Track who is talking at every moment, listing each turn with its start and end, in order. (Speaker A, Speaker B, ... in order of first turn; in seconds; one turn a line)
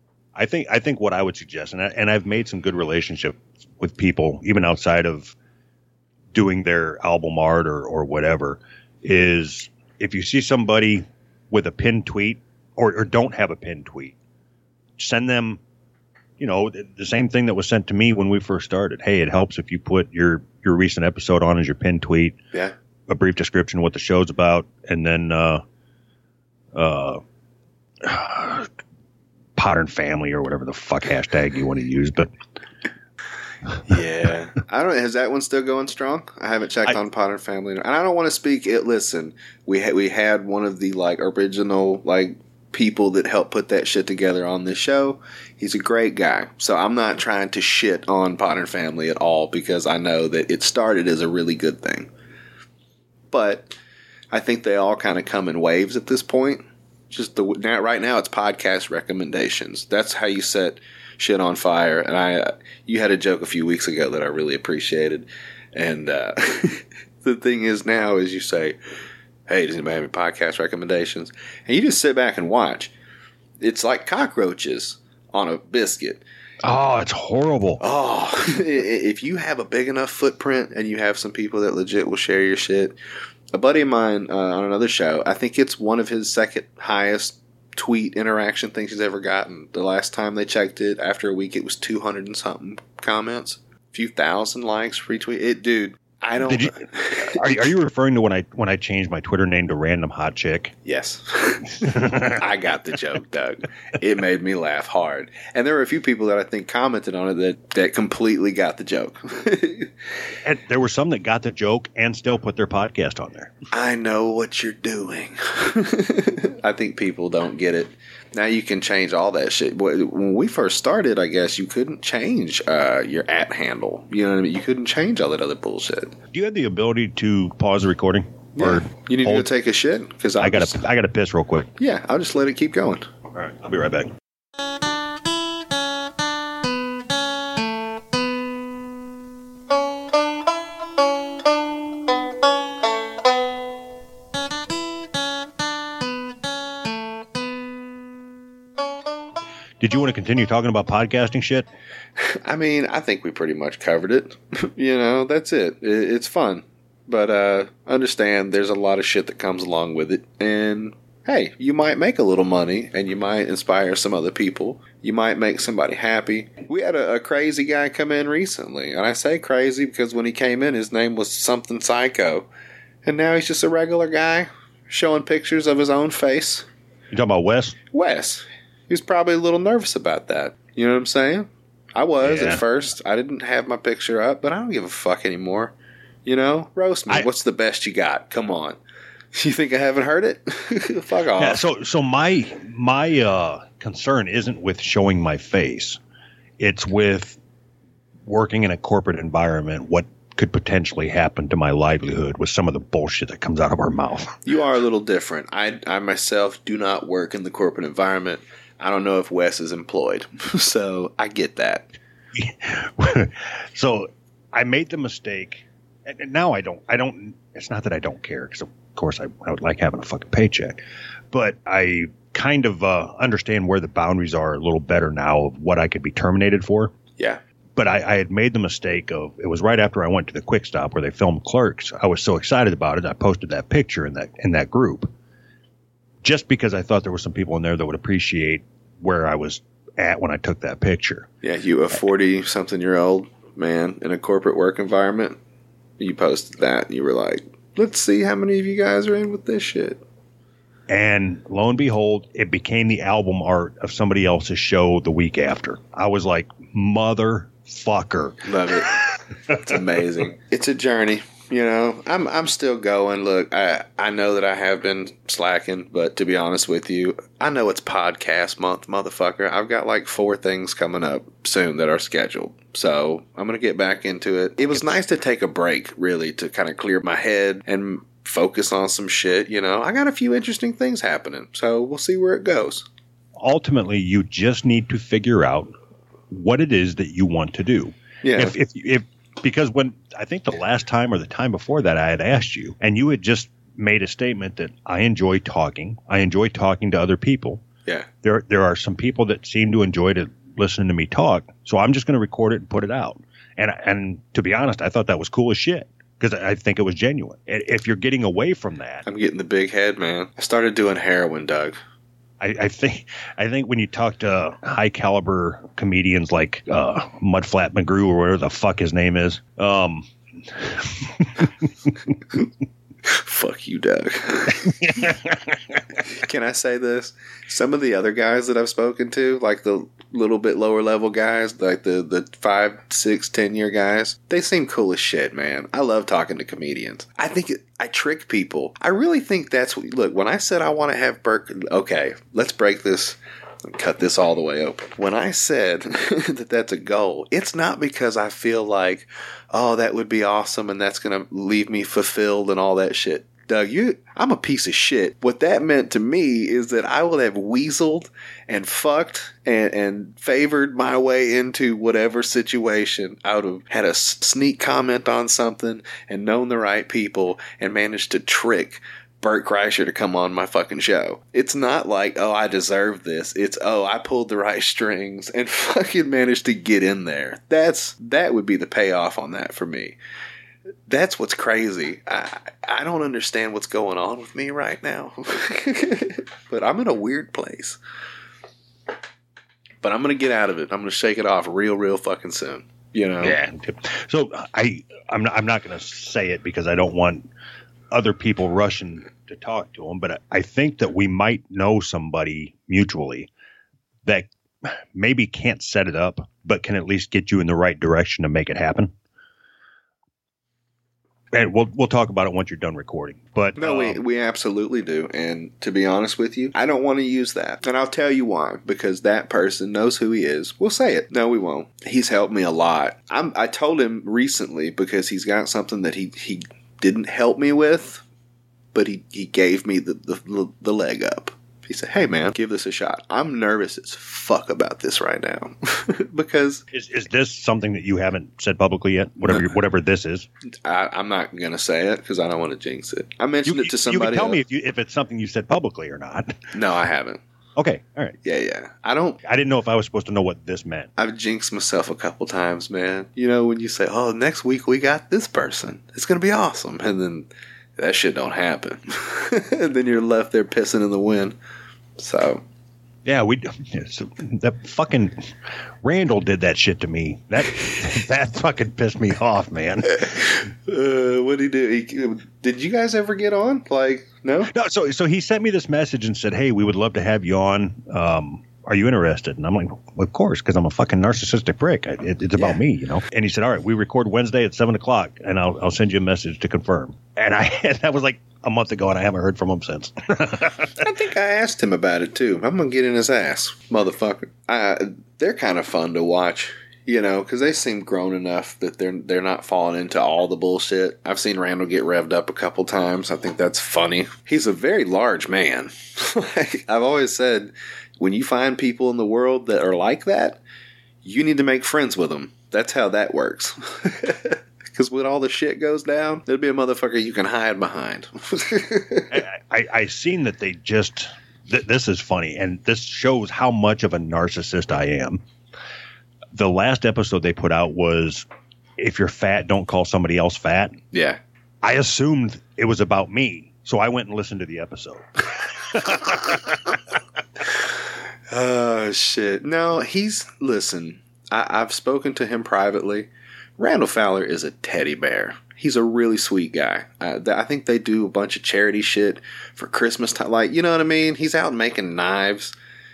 Speaker A: 0.3-5.3
Speaker A: 6.3-14.1
Speaker A: 15.0-15.6
Speaker A: 16.4-22.4
Speaker A: 23.1-25.6
Speaker A: 26.7-27.2
Speaker A: 28.0-28.7
Speaker A: 29.6-32.3
Speaker B: 33.9-52.1
Speaker B: 53.3-53.8
Speaker B: 54.3-68.8
Speaker B: 69.5-72.9
Speaker B: 73.6-76.2
Speaker A: 76.6-77.8
Speaker B: 77.8-83.0
Speaker B: 83.5-97.7
Speaker A: 96.4-100.8
Speaker B: 100.8-109.9
Speaker A: 101.8-102.4
Speaker A: 110.4-113.5
Speaker B: 113.7-126.1
Speaker A: 126.3-129.5
Speaker B: 128.6-130.8
Speaker A: 130.4-131.7
Speaker B: 131.8-133.1
Speaker A: 133.3-134.1
Speaker A: 149.8-151.7
Speaker B: 152.2-172.5
Speaker B: 173.0-176.7
Speaker A: 177.1-177.8
Speaker B: 177.9-185.7
Speaker A: 182.2-182.6
Speaker B: 186.2-188.8
Speaker B: 189.3-191.6
Speaker A: 191.4-196.0
Speaker A: 196.6-197.4
Speaker A: 198.2-204.4
Speaker B: 204.4-211.9
Speaker A: 212.3-220.8
Speaker A: 221.3-226.9
Speaker A: 227.8-235.1
Speaker A: 236.2-241.3
Speaker B: 241.4-245.4
Speaker B: 246.0-250.0
Speaker A: 250.9-259.2
Speaker B: 258.4-282.9
Speaker A: 283.4-285.7
Speaker A: 286.3-297.6
Speaker B: 288.2-288.5
Speaker A: 298.2-309.1
Speaker B: 309.1-311.8
Speaker A: 312.4-321.7
Speaker B: 323.0-325.1
Speaker A: 324.6-325.8
Speaker B: 326.0-380.0
Speaker B: 380.9-387.8
Speaker B: 389.8-393.4
Speaker A: 393.2-397.3
Speaker A: 397.9-403.3
Speaker A: 404.0-408.9
Speaker A: 411.3-414.0
Speaker B: 413.6-428.0
Speaker B: 428.7-436.6
Speaker A: 436.7-440.3
Speaker B: 440.6-444.4
Speaker A: 443.4-446.4
Speaker B: 446.5-447.2
Speaker A: 447.6-448.1
Speaker B: 448.2-449.2
Speaker A: 449.2-450.9
Speaker B: 451.0-461.4
Speaker B: 462.0-462.4
Speaker A: 463.0-465.3
Speaker A: 465.8-470.1
Speaker B: 470.0-474.5
Speaker A: 474.5-490.7
Speaker B: 490.8-510.4
Speaker B: 511.0-519.1
Speaker A: 519.1-525.2
Speaker A: 526.3-528.3
Speaker A: 528.8-530.8
Speaker B: 530.9-531.2
Speaker A: 531.6-536.8
Speaker B: 538.3-552.5